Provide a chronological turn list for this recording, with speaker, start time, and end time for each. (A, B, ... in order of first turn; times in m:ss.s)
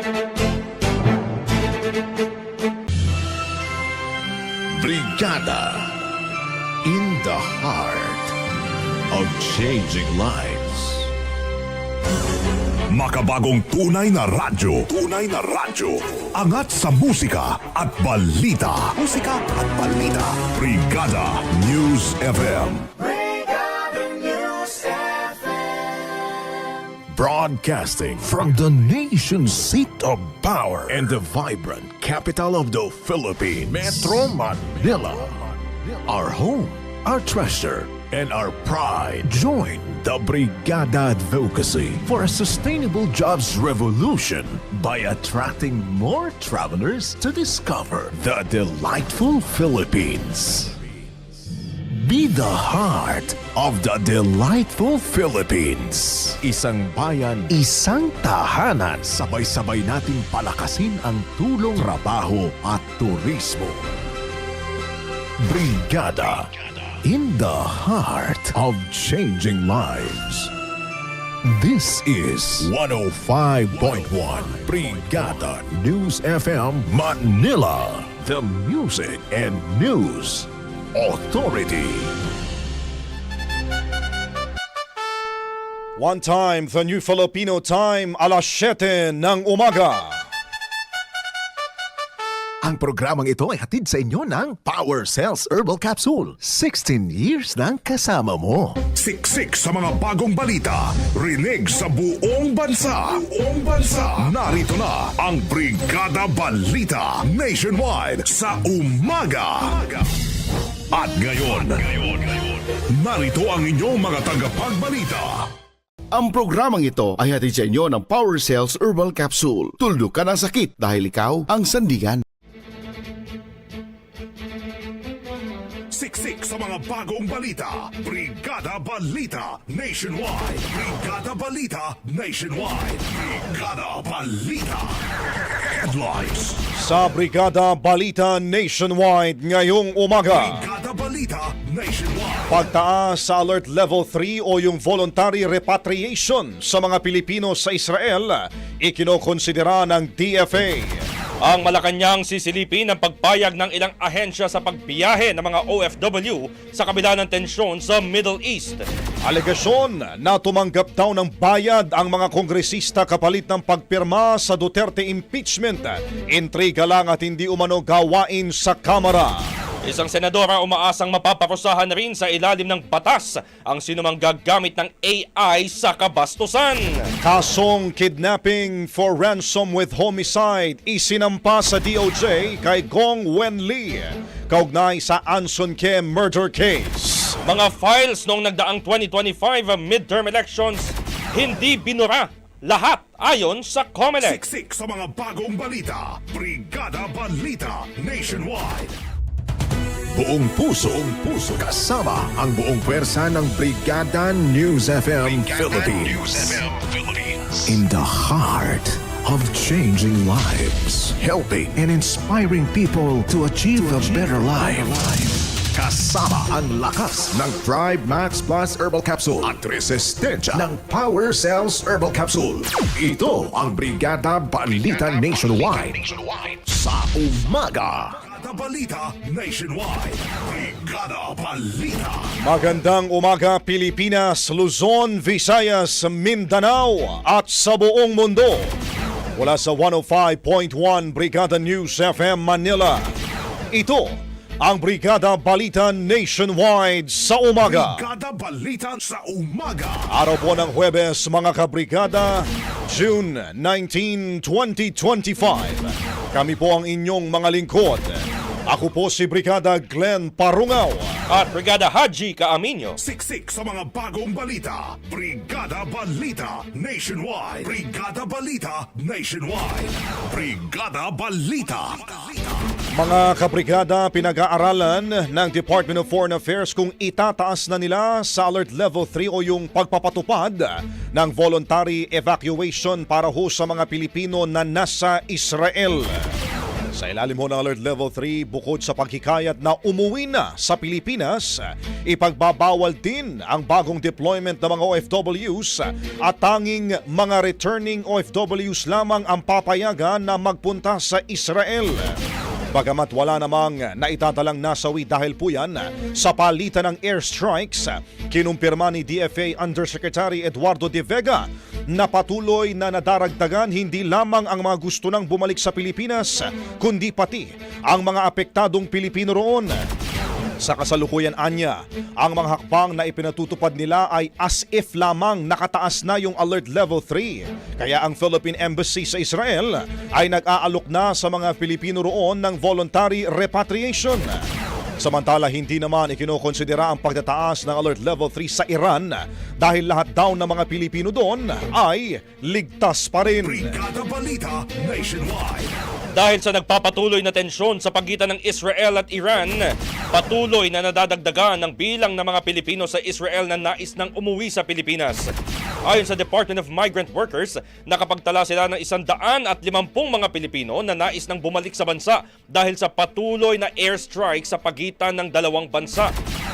0:04.7-0:05.9 A
0:06.8-0:08.3 A
0:09.1-0:11.1 A
0:12.9-0:22.9 B
0:27.1-0:50.8 A
0:51.8-1:03.8 A
1:05.4-1:06.5 A
1:07.0-1:10.5 A
1:11.5-1:22.1 A
1:26.0-1:30.2 C
1:32.6-1:38.8 A
1:39.0-1:50.1 B
1:50.9-1:55.5 B
1:56.1-2:02.2 D
2:05.9-2:16.6 B
2:16.7-2:20.6 C
2:20.3-2:22.6 B
2:22.5-2:31.0 C
2:31.4-2:38.8 E
2:39.2-2:49.4 C
2:49.8-2:57.0 E
2:57.2-3:07.4 C
3:07.4-3:14.4 E
3:14.2-3:19.0 B
3:20.1-3:48.2 A
3:48.2-3:52.3 B
3:52.4-3:58.7 C
3:59.4-4:03.1 C
4:03.7-4:08.0 C
4:07.6-4:10.1 B
4:10.1-4:21.1 C
4:21.3-4:23.0 E
4:23.0-4:32.7 B
4:32.9-4:46.2 C
4:46.9-5:02.1 C
5:02.7-5:19.7 C
5:20.6-5:34.4 C
5:35.0-5:43.8 C
5:43.4-5:45.7 B
5:46.1-5:55.3 E
5:55.8-6:06.1 E